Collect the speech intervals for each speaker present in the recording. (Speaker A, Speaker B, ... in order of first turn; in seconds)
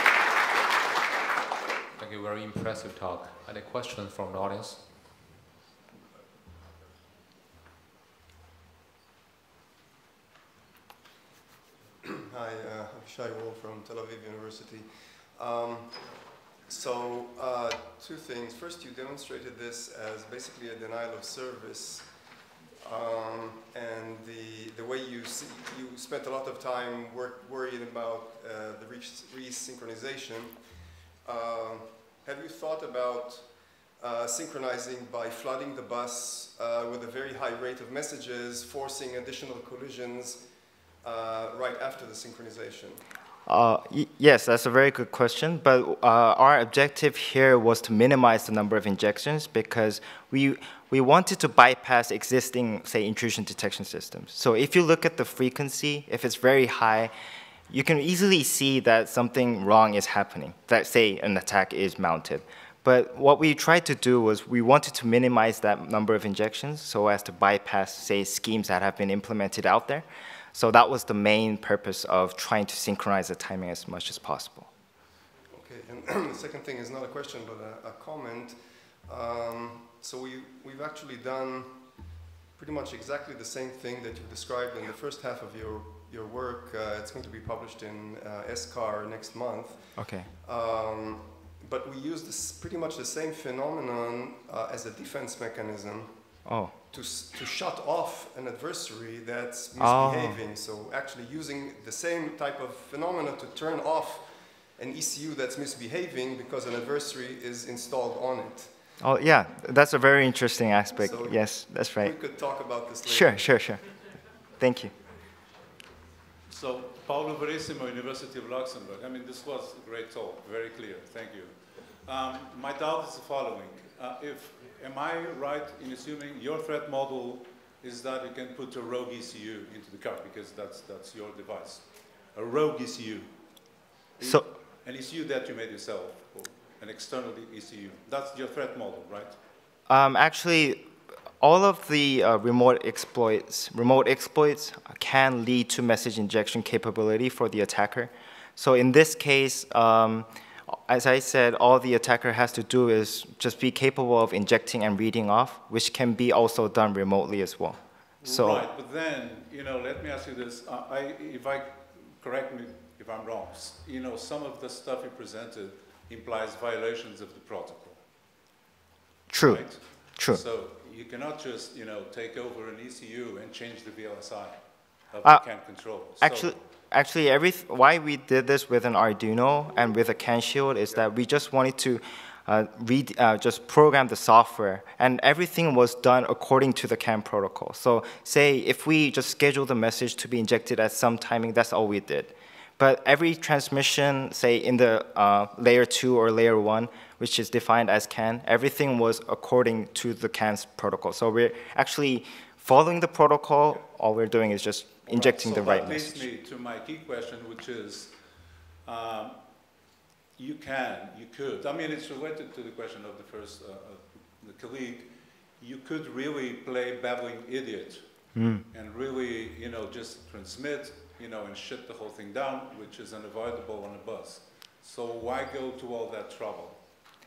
Speaker A: 1.9-4.8
Speaker B: 12.0-22.1, 22.8-40.5, 41.0-43.0, 75.5-108.9, 111.0-111.4, 112.0-113.4
Speaker C: 43.5-57.1, 57.7-74.7, 90.0-90.3, 96.4-96.7, 99.8-100.4, 109.0-112.1, 113.0-114.0, 114.6-114.9, 134.2-134.5, 139.9-140.9, 141.4-158.6, 169.3-170.4, 176.2-206.2, 218.3-218.6
Speaker D: 116.5-133.3, 134.2-139.4, 158.2-168.0, 169.4-176.5, 205.1-208.2, 208.8-209.4, 210.4-226.8